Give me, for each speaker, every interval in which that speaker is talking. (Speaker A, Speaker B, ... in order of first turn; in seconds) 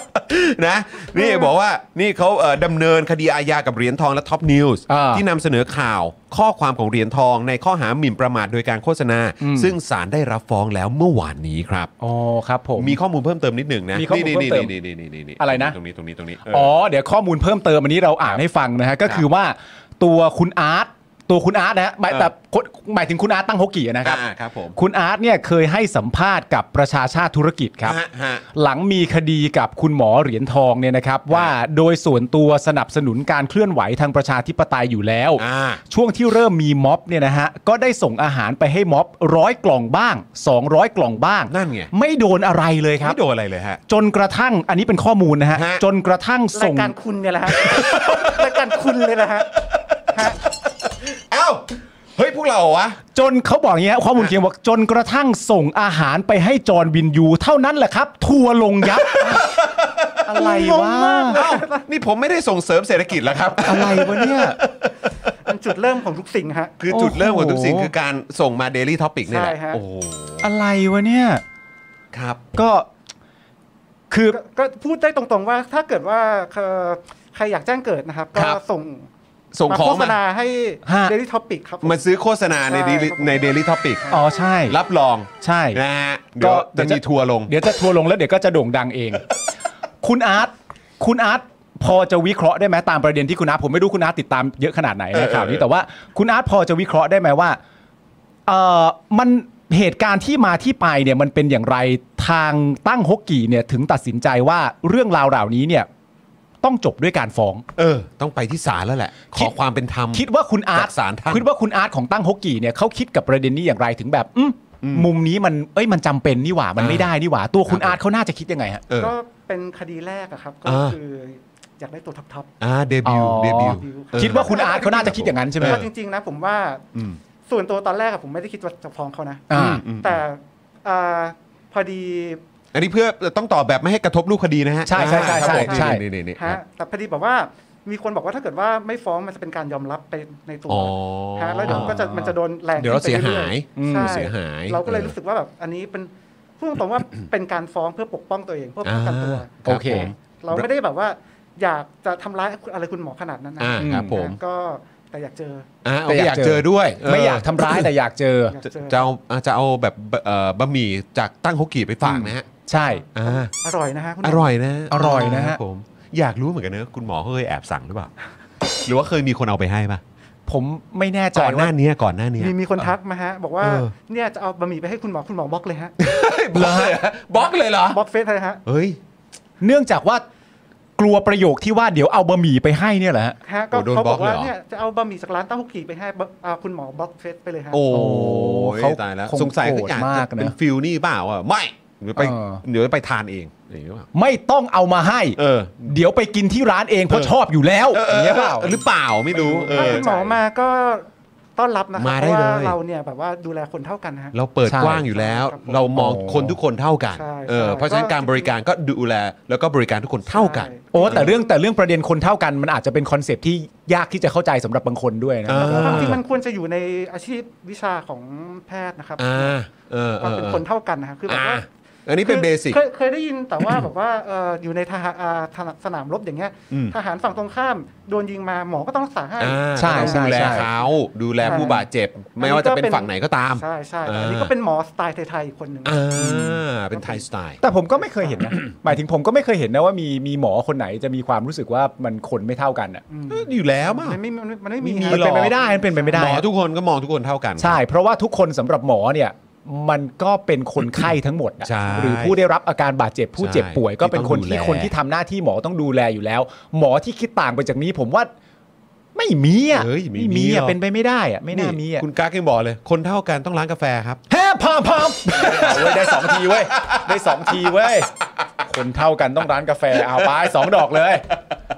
Speaker A: 0.3-11.9, 12.8-16.7, 24.0-24.8, 27.8-28.4, 35.4-35.8, 41.5-41.9, 43.0-43.8, 45.5-45.8, 47.5-48.5, 51.0-51.6, 52.2-53.0, 59.0-60.1, 61.3-65.1, 66.8-70.5, 72.1-72.4, 79.5-80.2, 81.8-84.1, 84.7-87.5, 95.1-95.7, 107.8-111.5, 114.8-115.1, 116.8-117.1, 117.7-118.0, 120.7-121.0, 122.6-125.8, 129.5-130.2, 132.7-136.6, 140.7-145.1, 148.8-150.7, 153.6-154.4, 155.8-157.9, 158.7-162.5, 163.1-163.5, 164.2-168.1, 168.8-170.0, 171.3-172.9, 173.6-173.9, 176.0-178.0, 178.7-179.0, 183.7-184.5, 187.7-194.1, 195.4-195.9, 197.9-200.4, 202.0-202.8, 204.3-211.3, 215.5-216.2, 219.2-220.6, 221.3-222.8, 229.4-234.5, 235.8-237.6, 243.3-244.2, 244.8-245.6, 246.1-247.8, 251.6-252.4, 253.4-254.9, 259.7-260.8, 261.5-264.2, 265.3-267.7
Speaker B: 1.1-1.5, 46.5-49.5, 50.1-50.4, 60.4-61.9, 65.5-66.8, 69.3-69.8, 74.3-79.1, 79.7-82.1, 82.6-84.2, 119.0-122.5, 123.6-126.9, 127.5-132.4, 135.0-155.7, 158.5-159.1, 163.0-164.5, 172.4-175.9, 177.4-178.6, 183.4-187.8, 199.3-201.1, 201.6-204.3, 204.9-205.9, 207.1-208.6, 210.3-211.5, 215.6-219.6, 220.2-221.7, 222.2-230.9, 231.4-231.8, 232.3-236.0, 236.9-237.2, 243.1-246.4
Speaker C: 4.9-5.2, 9.4-9.8, 12.0-13.0, 13.9-14.8, 15.4-15.8, 16.5-24.2, 24.8-28.0, 28.5-43.2, 43.9-46.9, 53.1-59.5, 60.3-61.5, 63.6-64.6, 66.9-67.9, 70.4-71.4, 72.5-72.9, 74.1-74.4, 80.8-81.2, 84.1-84.8, 85.4-85.8, 86.4-89.2, 90.0-97.6, 98.5-105.9, 106.6-107.6, 110.1-118.8, 123.0-125.8, 129.5-129.8, 134.9-136.0, 141.7-142.0, 143.8-144.3, 149.7-150.1, 153.8-154.2, 156.1-158.6, 162.0-163.1, 164.9-165.6, 170.5-171.7, 176.5-177.0, 179.6-180.2, 181.0-183.4, 187.9-190.6, 192.2-192.6, 194.1-198.8, 199.7-200.1, 204.7-205.0, 205.9-206.6, 210.9-216.2, 229.8-230.7, 231.4-231.8, 236.2-236.6, 237.6-243.0, 244.9-246.4, 247.6-258.3, 259.1-262.1, 264.3-268.1, 268.6-271.3